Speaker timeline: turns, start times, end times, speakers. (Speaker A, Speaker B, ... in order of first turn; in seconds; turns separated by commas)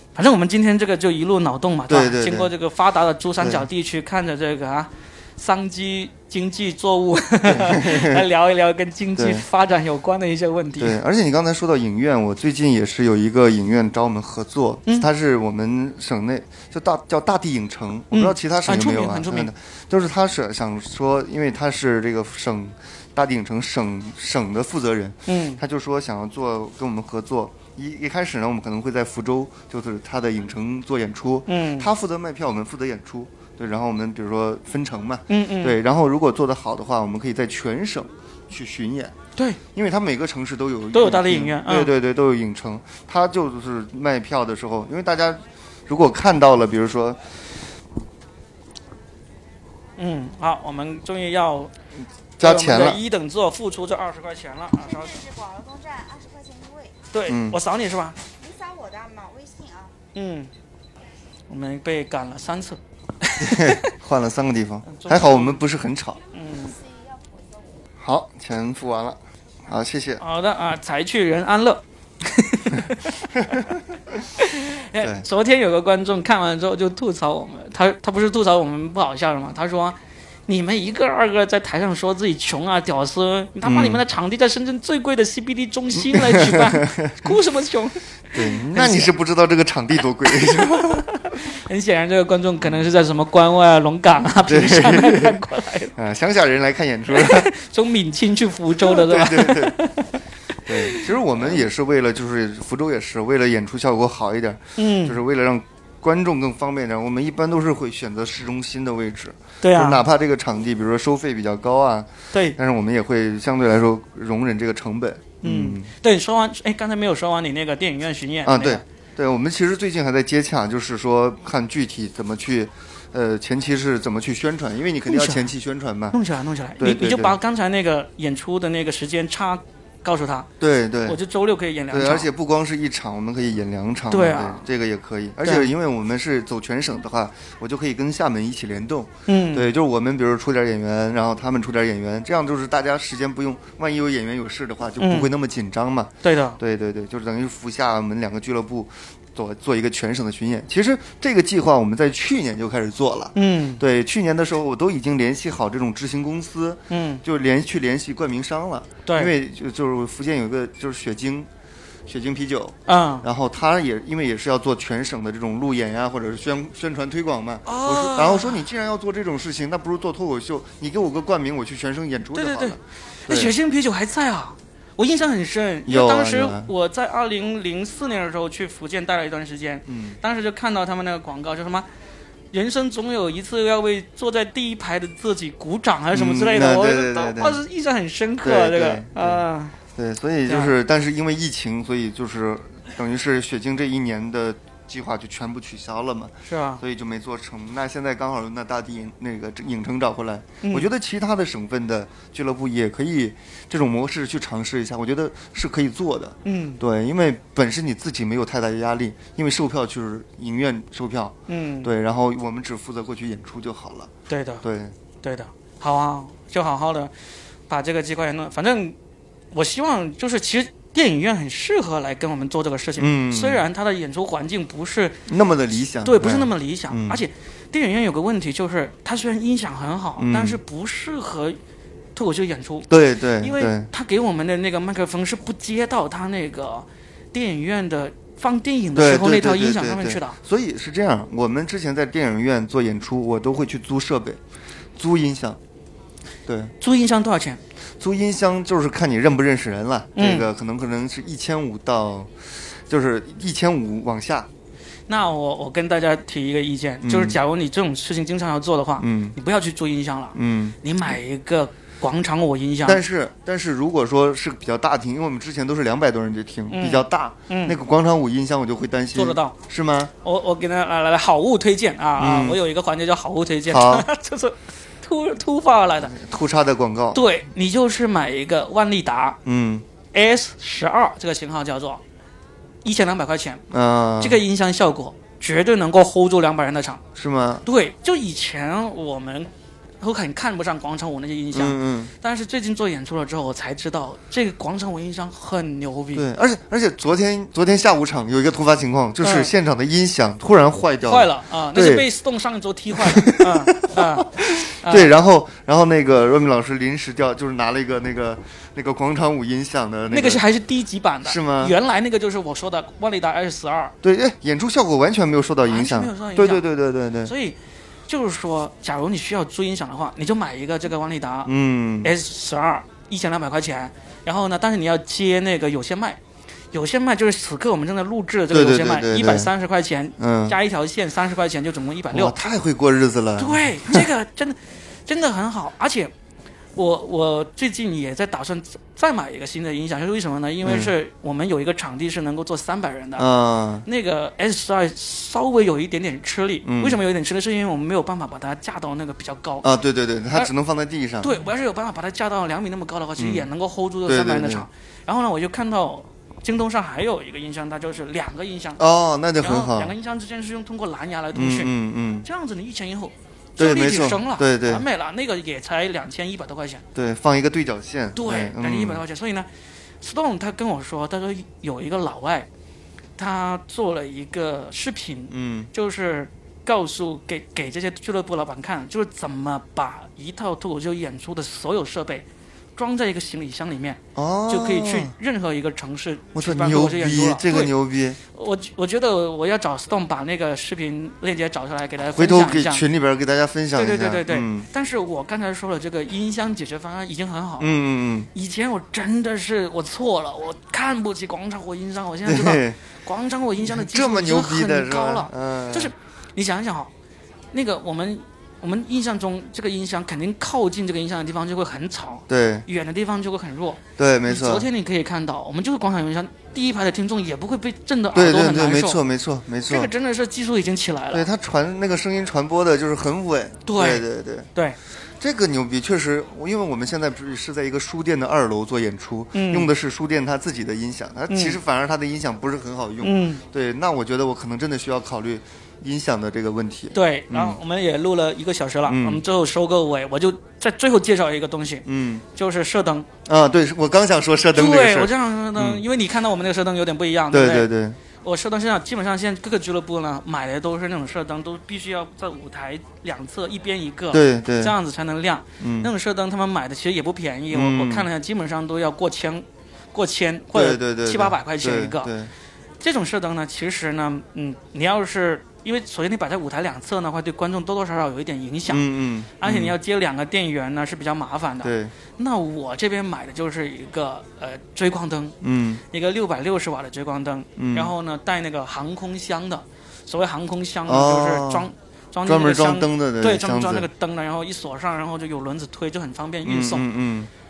Speaker A: 0.1-11.0, Speaker B: 1.9-2.5, Speaker B: 3.4-3.6, Speaker B: 7.4-8.2, Speaker B: 9.2-9.4, Speaker B: 10.8-39.1, Speaker A: 18.1-19.5, Speaker A: 25.3-25.6, Speaker A: 31.5-31.9, Speaker A: 35.3-35.8, Speaker B: 39.7-47.2, Speaker A: 40.9-41.9, Speaker A: 50.0-51.7, Speaker B: 52.4-53.0, Speaker A: 52.4-55.2, Speaker C: 54.7-57.0, Speaker A: 57.1-58.2, Speaker B: 57.3-57.6, Speaker C: 58.4-60.0, Speaker A: 60.1-60.5, Speaker A: 61.5-63.9, Speaker B: 63.4-66.2, Speaker A: 64.8-65.6, Speaker A: 66.3-66.8, Speaker C: 66.7-67.9, Speaker B: 68.0-70.2, Speaker A: 70.2-73.7, Speaker A: 74.4-89.1, Speaker B: 75.0-75.2, Speaker B: 83.6-84.0, Speaker B: 86.0-87.3, Speaker B: 88.3-91.0, Speaker A: 90.4-95.9, Speaker B: 94.4-95.4, Speaker B: 95.9-97.5, Speaker A: 97.1-101.6, Speaker B: 98.8-99.8, Speaker B: 100.7-115.9, Speaker A: 104.8-105.2, Speaker A: 109.6-110.0, Speaker A: 112.3-112.6, Speaker A: 115.4-118.8, Speaker B: 118.4-126.2, Speaker A: 125.1-125.5, Speaker A: 126.1-130.5, Speaker B: 126.8-127.3, Speaker B: 130.6-131.2, Speaker A: 131.1-132.3, Speaker B: 131.9-161.5, Speaker A: 134.1-134.6, Speaker A: 135.4-135.7, Speaker A: 139.3-139.7, Speaker A: 145.0-145.3, Speaker A: 146.2-146.6, Speaker A: 153.3-153.8, Speaker A: 156.9-157.2, Speaker A: 159.1-159.3, Speaker B: 162.1-173.5, Speaker A: 162.9-163.2, Speaker A: 167.7-168.6, Speaker A: 172.3-181.9, Speaker B: 175.8-176.7, Speaker B: 179.9-180.2, Speaker A: 182.5-189.8, Speaker B: 186.1-187.6, Speaker B: 188.4-214.1, Speaker A: 190.4-190.7, Speaker A: 196.5-196.8, Speaker A: 200.6-200.9, Speaker A: 206.4-206.8, Speaker A: 211.5-211.9, Speaker A: 214.3-214.6, Speaker B: 214.6-214.9, Speaker A: 215.2-217.1, Speaker A: 217.7-219.0, Speaker A: 219.5-225.2, Speaker B: 223.0-223.6, Speaker B: 225.3-227.2, Speaker A: 226.0-231.6, Speaker B: 230.2-230.6, Speaker A: 232.1-240.4, Speaker B: 232.9-233.9, Speaker B: 238.9-244.4, Speaker B: 244.9-245.6, Speaker B: 246.5-246.7, Speaker A: 246.8-247.6, Speaker B: 248.0-254.5, Speaker A: 250.2-250.4, Speaker A: 255.1-263.0, Speaker B: 257.0-257.4, Speaker B: 259.0-259.3, Speaker B: 260.3-260.8, Speaker B: 262.8-270.1, Speaker A: 266.7-267.8, Speaker A: 269.1-269.5, Speaker A: 270.2-276.1, Speaker B: 272.2-272.6, Speaker B: 273.7-274.1, Speaker B: 276.1-277.2, Speaker A: 277.1-279.4, Speaker B: 279.4-279.8, Speaker A: 280.1-282.0, Speaker A: 282.8-283.6, Speaker B: 283.7-284.4, Speaker A: 284.2-287.0, Speaker B: 287.1-287.6, Speaker A: 287.6-296.2, Speaker B: 291.5-292.1, Speaker B: 296.1-302.1, Speaker A: 299.2-299.5, Speaker A: 301.0-305.1, Speaker B: 302.9-310.4, Speaker A: 310.1-313.9, Speaker B: 311.2-311.8, Speaker B: 314.0-317.3, Speaker A: 315.6-316.6, Speaker A: 317.2-317.6, Speaker A: 318.1-326.2, Speaker B: 321.4-322.1, Speaker A: 326.7-332.4, Speaker B: 328.5-329.5, Speaker B: 330.2-330.6, Speaker B: 332.1-334.1, Speaker A: 333.4-336.1, Speaker A: 336.8-343.3, Speaker B: 340.6-340.9, Speaker B: 343.2-343.9, Speaker A: 343.9-349.7, Speaker B: 346.6-347.0, Speaker B: 349.6-351.3, Speaker A: 351.2-358.8, Speaker B: 353.2-353.5, Speaker B: 354.1-354.6, Speaker B: 358.8-359.9, Speaker A: 359.4-366.8, Speaker B: 361.3-362.2, Speaker B: 363.6-364.8, Speaker B: 366.9-369.0, Speaker A: 368.1-369.5, Speaker A: 370.0-372.5, Speaker A: 373.2-387.7, Speaker B: 375.3-375.7, Speaker B: 384.1-385.1, Speaker B: 386.3-388.2, Speaker A: 388.3-392.8, Speaker B: 392.1-394.7, Speaker A: 393.7-397.8, Speaker B: 397.6-398.3, Speaker A: 398.3-406.9, Speaker B: 402.2-402.8, Speaker B: 403.6-405.9, Speaker A: 407.5-419.0, Speaker B: 412.3-412.6, Speaker B: 414.0-414.7, Speaker B: 418.1-419.9, Speaker A: 419.7-421.3, Speaker B: 421.1-424.5, Speaker A: 423.6-424.8, Speaker B: 425.2-437.6, Speaker A: 429.3-429.7, Speaker A: 431.3-431.6, Speaker A: 433.0-433.4, Speaker A: 436.9-443.1, Speaker B: 438.9-439.2, Speaker B: 441.9-442.2, Speaker B: 443.2-445.8, Speaker A: 444.5-447.7, Speaker B: 447.3-448.0, Speaker A: 448.2-462.1, Speaker B: 454.1-454.7, Speaker B: 455.6-455.9, Speaker B: 457.5-458.1, Speaker B: 460.5-462.3, Speaker A: 462.8-468.9, Speaker B: 468.7-469.8, Speaker A: 469.4-475.4, Speaker B: 471.6-471.9, Speaker B: 475.4-475.8, Speaker A: 475.9-486.8, Speaker B: 477.6-477.9, Speaker B: 480.9-481.7, Speaker B: 482.2-483.9, Speaker B: 486.4-487.3